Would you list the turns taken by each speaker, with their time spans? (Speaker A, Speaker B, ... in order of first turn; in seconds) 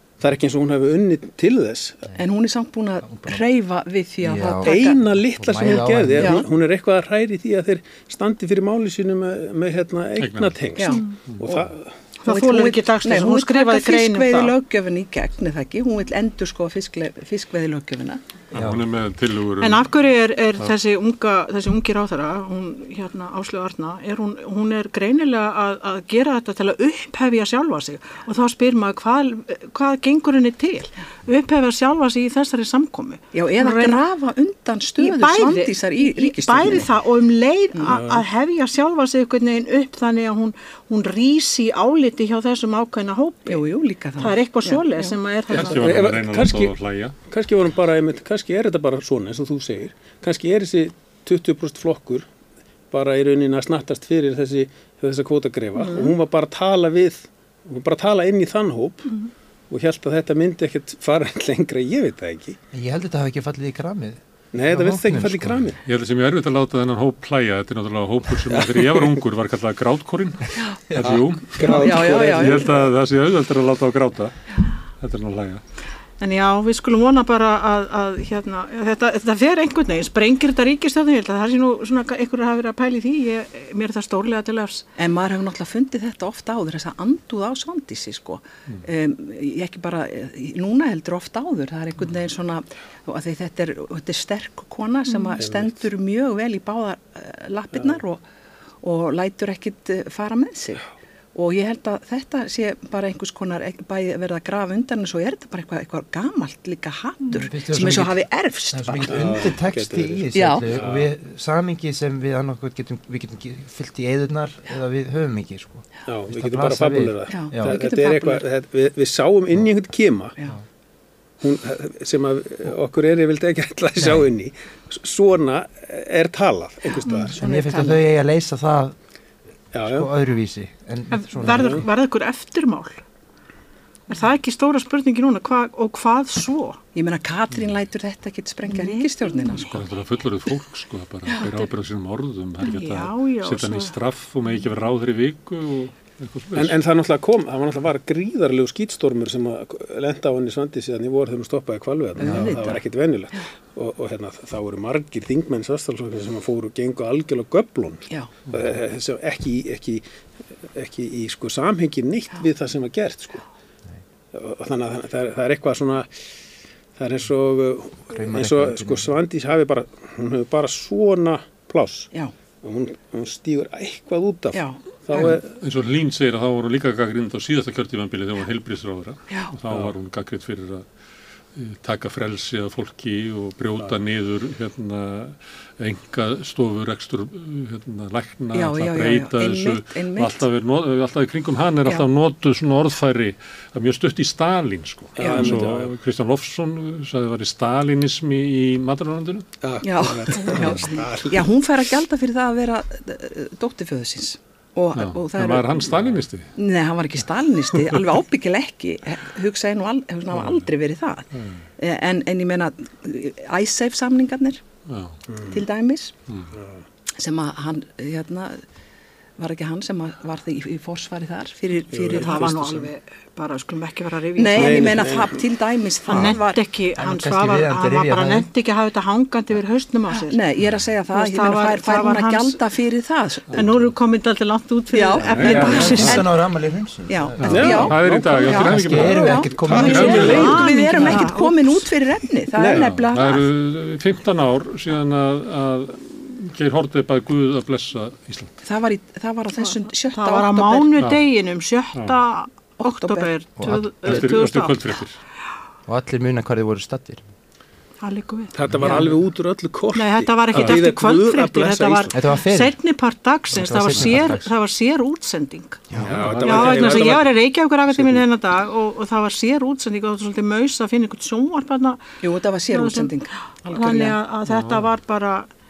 Speaker A: 0.2-2.1, 4.6-11.9, 45.5-52.3, 52.9-59.1, 59.7-62.6, 64.5-65.8, 68.5-69.1, 71.5-72.8, 95.4-95.8, 109.0-111.1, 116.1-120.3, 121.4-127.4, 129.7-130.1, 131.6-131.8, 146.5-160.0, 160.7-163.4, 164.3-166.1, 166.9-175.5, 195.2-195.9, 199.6-201.5, 215.3-215.6, 216.5-216.8, 221.9-222.9, 224.5-225.4, 237.4-241.1, 242.5-242.9, 258.5-262.2, 266.0-267.3, 267.9-268.2
Speaker B: 2.1-5.0, 6.2-6.5, 10.8-11.7, 12.2-18.2, 33.3-36.9, 43.5-45.1, 71.7-72.7, 85.0-98.2, 98.8-109.5, 110.3-110.7, 117.3-118.4, 127.2-128.0, 136.9-139.8, 152.2-152.8, 174.5-175.4, 188.5-190.4, 195.2-195.6, 199.8-205.9, 206.6-214.6, 215.5-216.1, 217.2-218.6, 219.4-222.6, 224.4-226.6, 230.2-233.7, 234.9-236.4, 237.1-243.5, 248.6-250.9, 252.8-253.3, 258.8-259.1, 272.2-274.2
Speaker C: 3.1-3.4, 4.2-4.7, 5.3-6.4, 18.5-18.8, 62.7-65.6, 70.9-71.2, 107.3-117.8, 124.0-124.2, 127.3-128.9, 129.8-131.8, 152.3-152.7, 168.1-169.1, 227.0-228.5, 235.5-240.4, 253.6-254.3, 255.9-257.2, 262.1-262.8, 263.5-264.5, 265.9-266.4
Speaker D: 10.2-10.6, 18.5-19.9, 45.5-47.1, 65.8-74.3, 75.0-75.6, 139.6-146.8, 175.6-180.9, 181.5-199.5, 204.9-206.5, 207.7-208.0, 210.3-210.7, 211.3-211.6, 214.9-215.2, 233.5-233.8, 235.2-236.1, 237.4-240.6, 242.7-248.5, 254.0-255.2, 265.9-267.1, 274.5-274.9
Speaker E: 12.2-14.5, 19.6-34.0, 35.0-43.6, 44.2-45.9, 55.8-56.1, 76.2-84.8, 95.1-95.3, 131.1-133.0, 134.1-136.8, 138.7-139.6, 141.4-141.7, 142.6-143.9, 222.1-225.1, 226.1-230.4, 231.1-232.6, 233.5-236.2, 239.8-241.8, 249.6-254.8, 258.0-258.5, 259.9-265.8, 266.4-272.2, 272.7-273.1, 273.7-275.5